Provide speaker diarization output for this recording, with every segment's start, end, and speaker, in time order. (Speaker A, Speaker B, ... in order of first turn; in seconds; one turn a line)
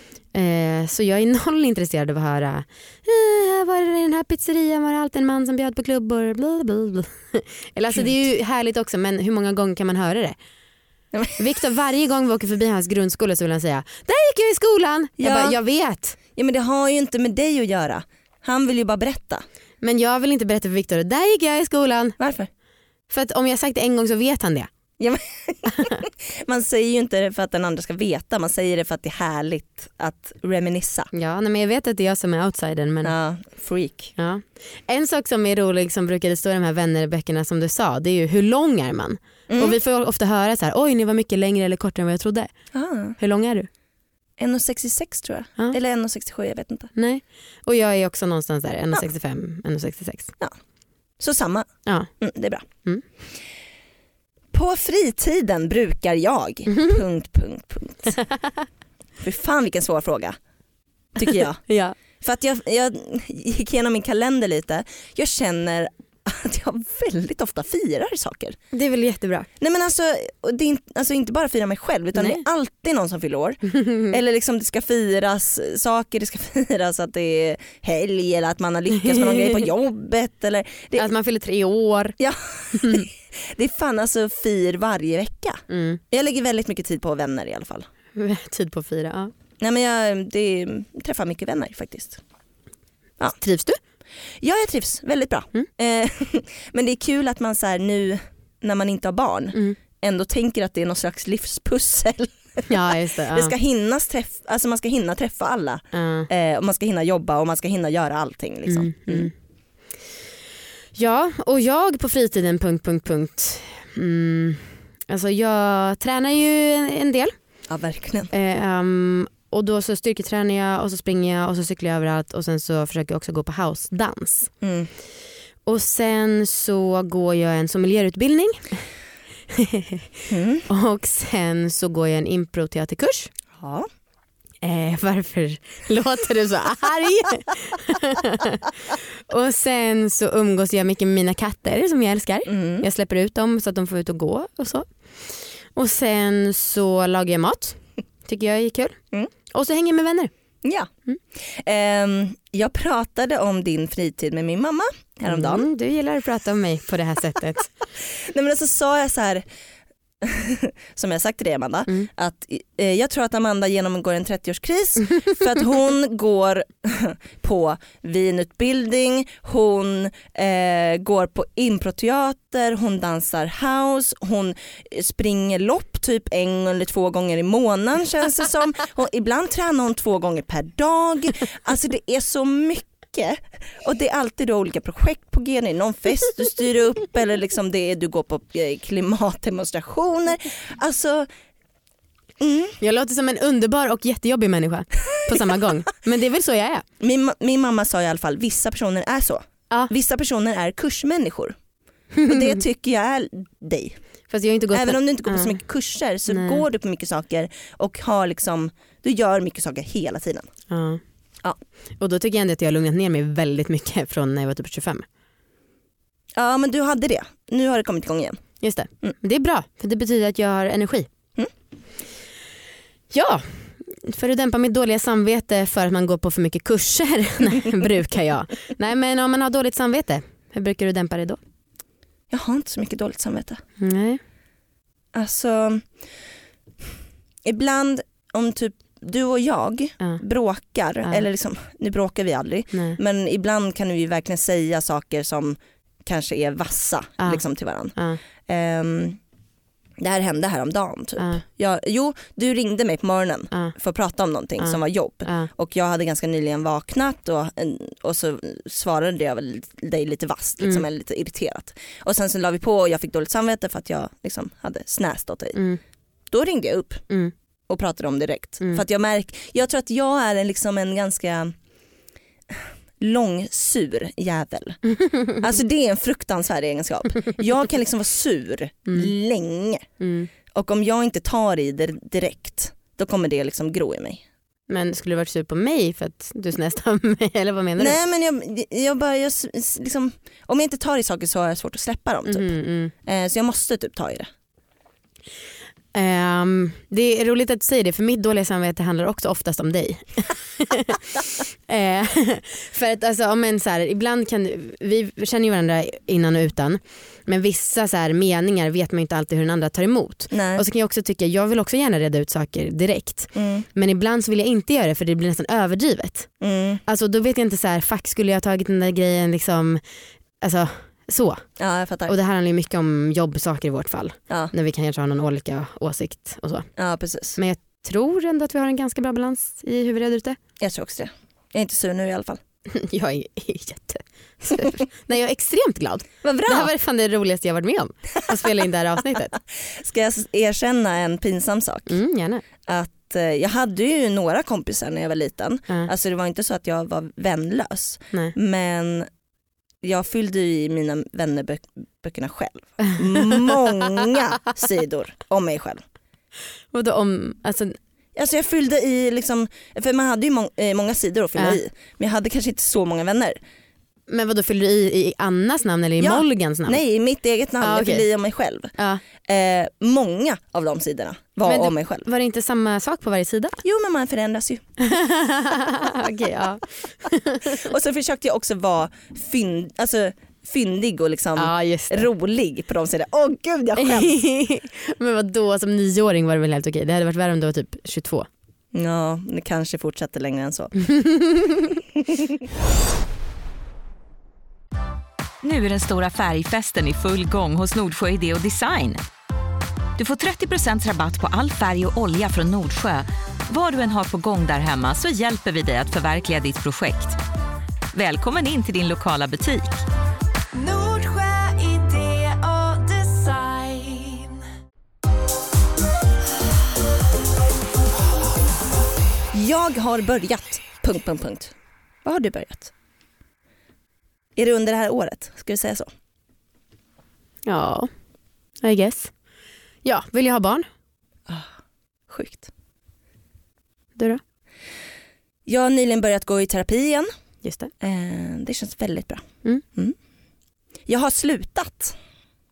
Speaker A: 0.3-10.4
Speaker B: 11.1-11.4
Speaker A: 11.4-16.2
Speaker B: 15.2-15.6
Speaker B: 16.4-19.4
Speaker A: 19.8-22.2
Speaker B: 22.2-22.5
Speaker A: 23.1-24.7
Speaker B: 25.0-31.1
Speaker A: 25.7-26.1
Speaker A: 31.1-33.1
Speaker B: 33.0-34.1
Speaker A: 34.2-42.5
Speaker B: 39.5-39.8
Speaker B: 42.7-43.2
Speaker A: 43.2-43.7
Speaker B: 44.4-46.9
Speaker A: 47.0-50.4
Speaker B: 51.2-52.6
Speaker A: 51.9-52.1
Speaker B: 54.5-58.1
Speaker A: 56.7-57.0
Speaker A: 58.2-58.6
Speaker B: 59.2-60.4
Speaker B: 61.1-61.6
Speaker A: 61.3-62.0
Speaker B: 62.2-68.6
Speaker A: 68.7-69.5
Speaker B: 69.6-81.1
Speaker A: 72.2-72.4
Speaker A: 73.7-74.2
Speaker A: 79.0-79.6
Speaker A: 81.0-82.2
Speaker B: 82.2-87.9
Speaker A: 82.7-83.1
Speaker A: 85.7-86.0
Speaker A: 88.2-89.3
Speaker B: 89.6-92.2
Speaker A: 93.4-93.8
Speaker B: 94.4-109.3
Speaker A: 102.7-103.5
Speaker A: 105.9-106.3
Speaker A: 108.7-109.3
Speaker A: 111.0-117.4
Speaker B: 117.7-118.3
Speaker A: 118.3-124.5
Speaker B: 124.6-124.9
Speaker A: 125.7-128.9
Speaker A: 129.5-133.3
Speaker B: 130.3-130.7
Speaker B: 133.6-133.9
Speaker A: 134.6-149.0
Speaker B: 142.5-142.8
Speaker A: 149.5-150.3
Speaker B: 150.6-155.7
Speaker A: 155.3-157.7
Speaker B: 158.1-159.4
Speaker B: 160.2-191.3
Speaker B: 192.4-192.8
Speaker A: 192.8-196.8
Speaker B: 197.0-201.6
Speaker A: 202.2-202.6
Speaker B: 202.3-204.0
Speaker A: 204.3-205.6
Speaker B: 204.7-210.5
Speaker A: 206.3-206.7
Speaker A: 210.7-211.0
Speaker A: 212.0-215.1
Speaker B: 216.4-218.4
Speaker A: 218.6-221.1
Speaker A: 223.1-231.4
Speaker B: 232.3-233.6
Speaker A: 233.8-234.2
Speaker B: 235.1-236.0
Speaker B: 237.4-249.2
Speaker A: 242.7-243.0
Speaker A: 247.9-248.2
Speaker B: 250.0-265.6
Speaker A: 251.2-251.4
Speaker A: 254.6-255.5
Speaker A: 260.6-260.9
Speaker A: 265.6-265.8
Speaker B: 266.3-267.1
Speaker B: 267.7-271.6
Speaker B: 272.5-274.8
Speaker A: 275.0-275.4
Speaker B: 275.4-279.9
Speaker A: 278.9-279.1
Speaker A: 280.0-280.3
Speaker B: 280.5-284.2
Speaker A: 284.7-288.0
Speaker B: 287.8-294.3
Speaker A: 292.3-292.9
Speaker A: 295.9-316.3
Speaker B: 310.3-310.6
Speaker B: 313.3-313.6
Speaker B: 316.4-316.8
Speaker A: 316.9-319.8
Speaker A: 320.4-321.5
Speaker B: 321.6-322.1
Speaker A: 322.1-326.7
Speaker B: 326.8-327.4
Speaker A: 327.4-330.4
Speaker B: 330.6-332.4
Speaker A: 332.7-339.4
Speaker B: 336.2-336.7
Speaker B: 339.6-342.0
Speaker A: 341.9-342.4
Speaker B: 342.7-349.1
Speaker B: 349.8-355.8
Speaker A: 352.9-353.7
Speaker A: 356.7-357.8
Speaker B: 358.1-363.4
Speaker A: 364.1-366.8
Speaker B: 366.0-372.1
Speaker A: 367.6-368.1
Speaker A: 368.8-369.0
Speaker A: 371.4-373.6
Speaker B: 373.6-374.6
Speaker A: 374.8-377.7
Speaker B: 377.5-384.2
Speaker A: 381.4-382.1
Speaker A: 383.8-388.3
Speaker B: 388.7-390.8
Speaker A: 390.9-391.8
Speaker C: 395.4-399.0
Speaker C: 400.0-407.2
Speaker C: 407.9-409.9
Speaker A: 410.7-414.2
Speaker B: 419.3-422.7
Speaker B: 424.4-425.9
Speaker A: 427.5-427.9
Speaker A: 428.6-429.2
Speaker A: 429.8-430.7
Speaker B: 432.1-432.5
Speaker A: 434.0-434.2
Speaker B: 435.5-437.1
Speaker A: 437.4-437.7
Speaker B: 437.8-439.9
Speaker B: 440.9-442.0